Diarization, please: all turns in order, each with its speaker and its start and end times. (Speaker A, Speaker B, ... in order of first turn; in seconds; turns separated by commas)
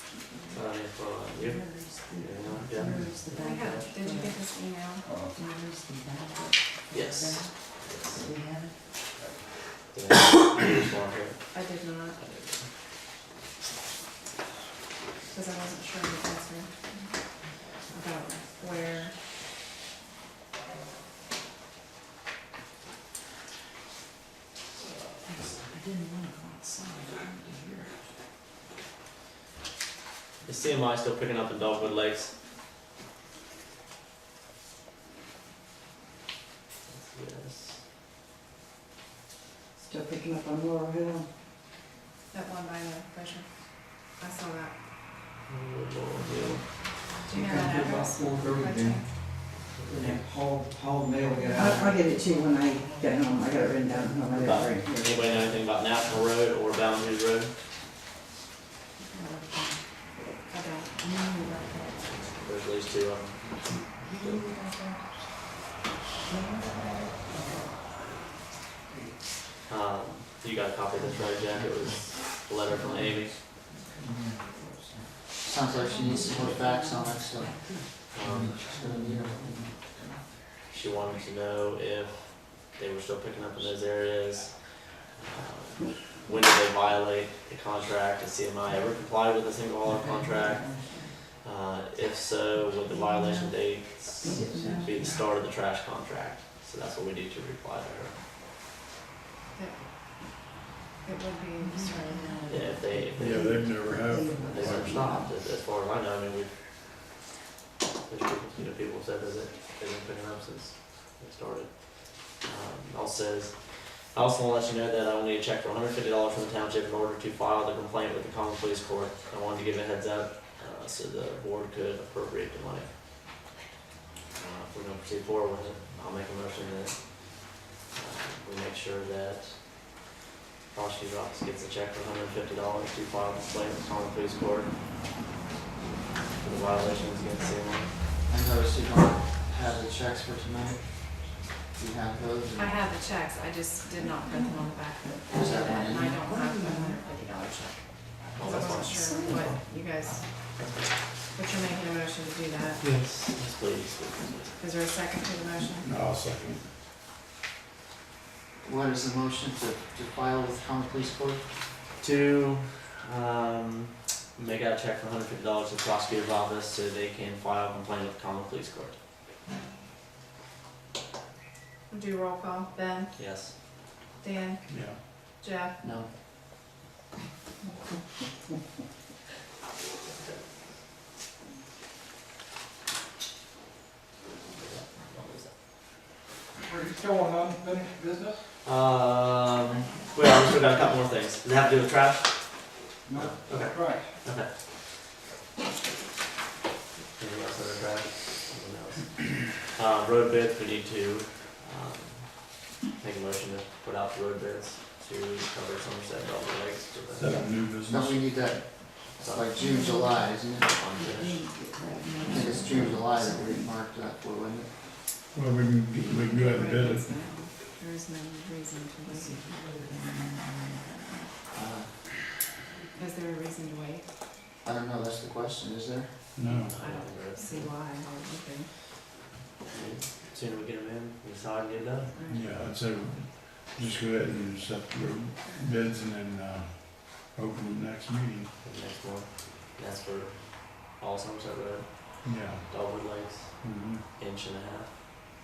Speaker A: 0.5-3.9, Speaker B: 1.5-4.4, Speaker C: 3.3-5.1, Speaker B: 5.3-7.6, Speaker A: 6.9-8.2, Speaker B: 8.2-8.8, Speaker A: 9.9-11.6, Speaker C: 11.5-12.2, Speaker A: 12.2-12.7, Speaker C: 15.3-16.8, Speaker C: 17.4-19.2, Speaker B: 25.2-28.0, Speaker A: 30.4-32.4, Speaker A: 36.9-37.8, Speaker B: 39.8-41.3, Speaker C: 42.3-44.8, Speaker A: 45.5-46.9, Speaker C: 47.2-49.5, Speaker D: 47.4-49.0, Speaker A: 49.6-50.2, Speaker D: 50.0-52.0, Speaker B: 51.2-55.1, Speaker A: 54.4-57.5, Speaker B: 59.0-59.8, Speaker C: 60.5-61.0, Speaker B: 61.0-62.0, Speaker A: 62.0-64.5, Speaker B: 63.9-65.0, Speaker B: 66.3-67.7, Speaker A: 69.7-73.4, Speaker B: 72.7-75.1, Speaker E: 75.4-77.8, Speaker B: 75.9-80.3, Speaker A: 78.1-78.6, Speaker E: 78.6-79.6, Speaker A: 80.7-98.2, Speaker B: 89.9-91.1, Speaker B: 94.2-95.1, Speaker C: 99.5-99.9, Speaker C: 101.0-102.6, Speaker B: 101.6-105.3, Speaker A: 102.5-103.6, Speaker F: 103.1-105.3, Speaker A: 104.4-106.7, Speaker A: 108.0-122.9, Speaker A: 124.4-130.0, Speaker A: 130.7-134.8, Speaker A: 136.4-138.0, Speaker E: 138.3-142.8, Speaker C: 142.6-150.6, Speaker E: 145.3-146.2, Speaker B: 146.1-147.0, Speaker A: 148.3-149.5, Speaker B: 148.7-149.6, Speaker A: 150.6-151.0, Speaker C: 151.3-152.8, Speaker A: 152.8-154.6, Speaker C: 154.6-155.9, Speaker F: 155.8-156.7, Speaker E: 158.6-161.5, Speaker A: 162.0-169.0, Speaker C: 171.9-175.8, Speaker A: 173.2-173.5, Speaker F: 174.7-175.0, Speaker E: 175.8-176.1, Speaker A: 184.5-185.5, Speaker D: 186.6-188.4, Speaker A: 188.6-194.6, Speaker D: 193.1-194.1, Speaker A: 197.2-207.5, Speaker F: 207.2-208.2, Speaker E: 207.9-210.8, Speaker A: 209.2-209.5, Speaker B: 209.6-210.3, Speaker A: 210.6-211.4, Speaker B: 210.9-213.7, Speaker E: 212.2-214.8, Speaker F: 215.3-217.3, Speaker C: 216.3-219.4, Speaker B: 219.1-221.3, Speaker E: 221.5-222.0, Speaker C: 222.9-224.1, Speaker E: 224.6-226.2, Speaker F: 226.4-226.8, Speaker A: 226.5-227.8, Speaker C: 226.7-228.7, Speaker A: 229.7-232.2, Speaker C: 232.1-232.5, Speaker F: 232.3-238.5, Speaker A: 238.6-245.0, Speaker F: 242.2-242.9, Speaker F: 243.6-244.1